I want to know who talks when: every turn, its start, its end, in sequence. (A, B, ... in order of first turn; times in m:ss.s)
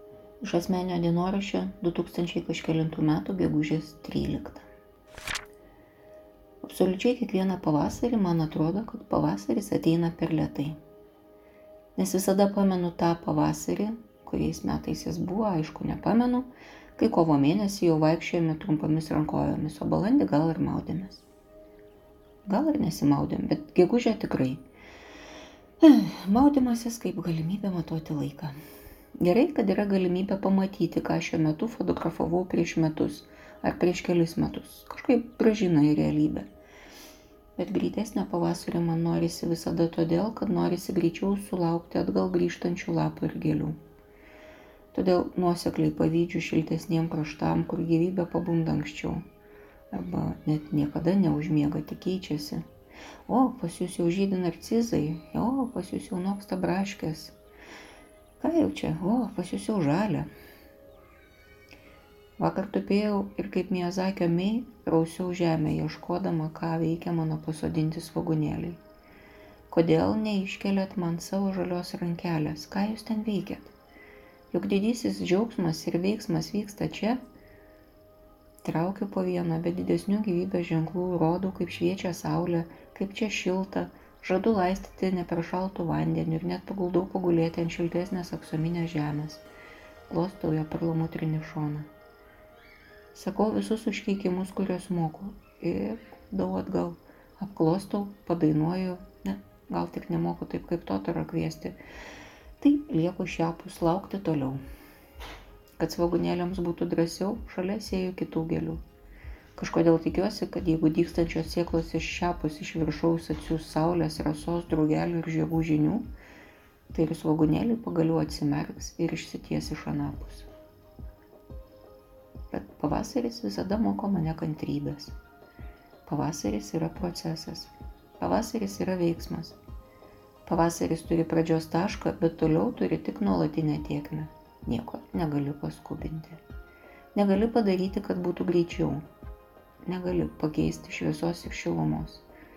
0:00.4-0:04.7 A
0:06.6-0:10.8 A
0:12.0-0:21.2 A
0:22.5-0:24.6 A
0:25.8-0:28.6 A
0:29.2-0:36.5 A
0:37.6-0:43.8 A
0:44.9-0:49.2 A
0:49.9-0:52.6 A
0:53.3-0:57.3 A
0:58.4-1:00.3 A
1:02.4-1:08.8 A
1:09.7-1:13.7 A
1:14.5-1:17.2 A
1:18.6-1:29.4 A
1:30.1-1:31.9 A
1:33.1-1:41.8 A
1:42.6-1:44.6 A
1:45.8-1:48.8 A
1:49.6-1:56.1 A
1:56.9-2:00.5 A
2:02.5-2:05.1 A
2:06.1-2:09.6 A
2:10.4-2:16.4 A
2:17.1-2:19.0 A
2:19.8-2:22.2 A